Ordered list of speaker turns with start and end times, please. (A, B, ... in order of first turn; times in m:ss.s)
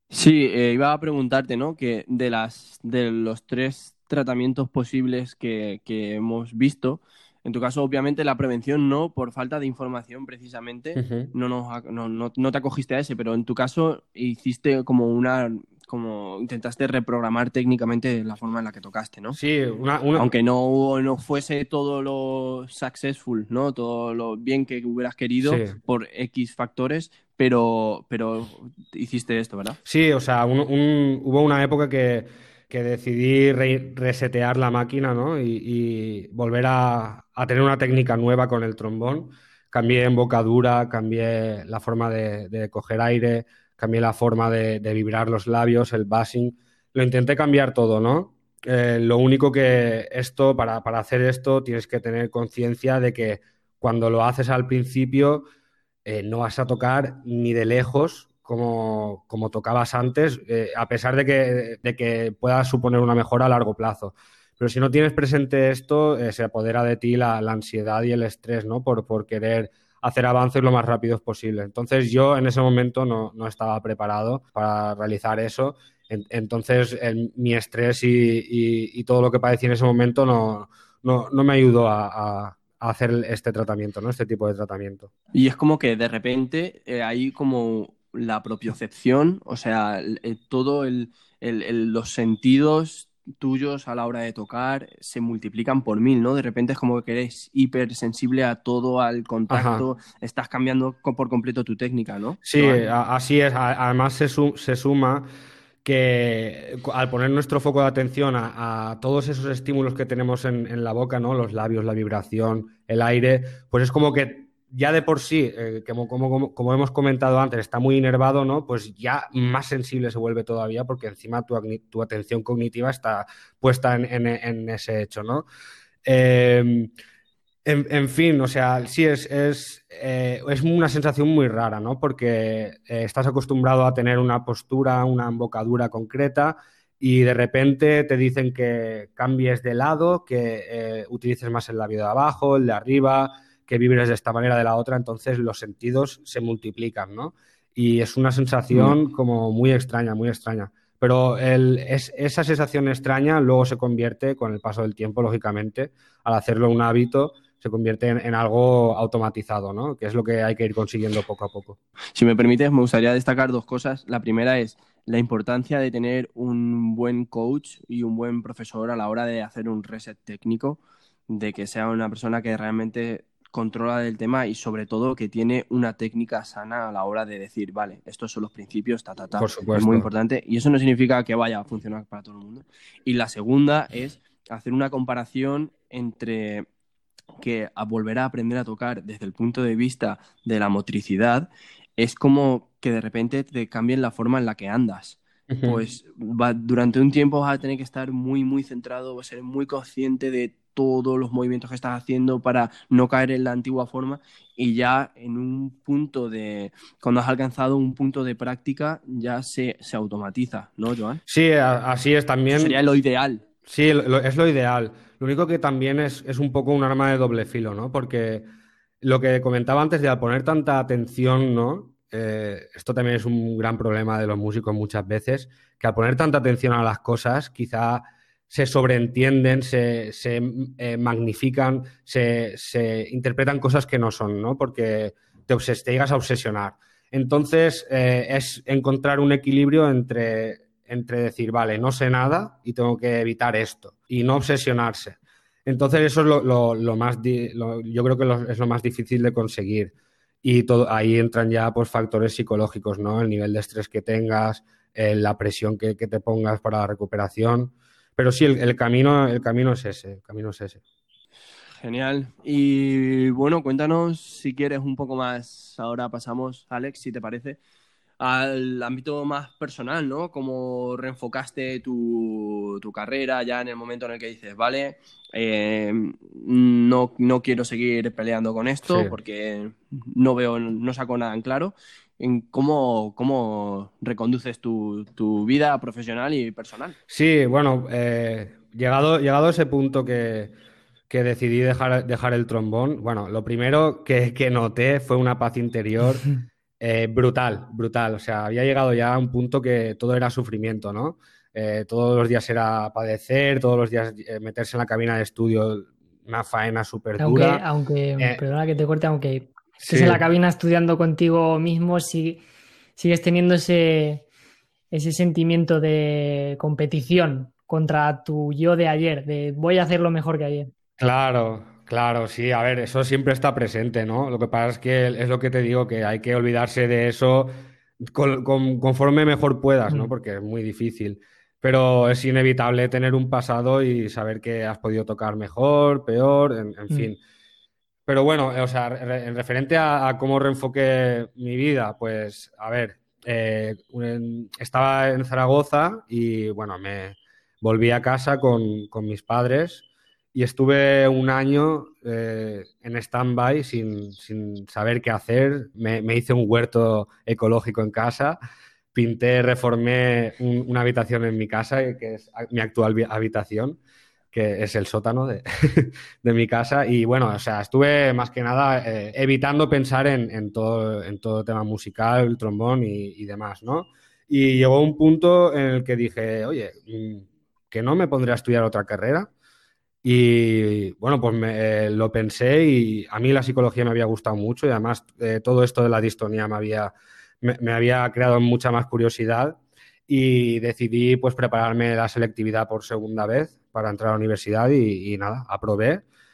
0:00.1-0:19.4 A
0:11.0-0:11.3 B
0:19.3-0:20.3 B
0:20.2-0:29.8 A
0:25.4-0:25.8 B
0:29.9-0:55.4 B
0:56.0-1:25.1 B
1:25.3-1:42.8 A
1:39.5-1:39.8 B
1:42.5-1:45.3 B
1:45.8-2:05.5 B
2:06.0-2:06.9 B
2:07.6-2:41.8 B
2:42.2-3:06.7 A
2:59.4-3:00.1 B
3:07.4-3:31.2 A
3:15.5-3:15.8 B
3:31.3-3:32.8 B
3:32.5-3:33.4 A
3:33.7-3:38.4 B
3:39.0-4:20.8 B
4:21.8-4:27.6 A
4:28.2-4:47.0 A
4:38.9-4:39.1 B
4:47.1-4:50.5 B
4:51.1-4:56.3 B
4:56.8-5:07.6 B
5:07.2-5:12.4 C
5:09.8-5:10.2 B
5:13.0-5:14.2 C
5:14.9-5:20.7 C
5:21.0-5:37.2 B
5:38.1-5:58.4 B
5:58.9-6:03.8 B
6:04.3-6:19.3 B
6:20.0-6:36.0 B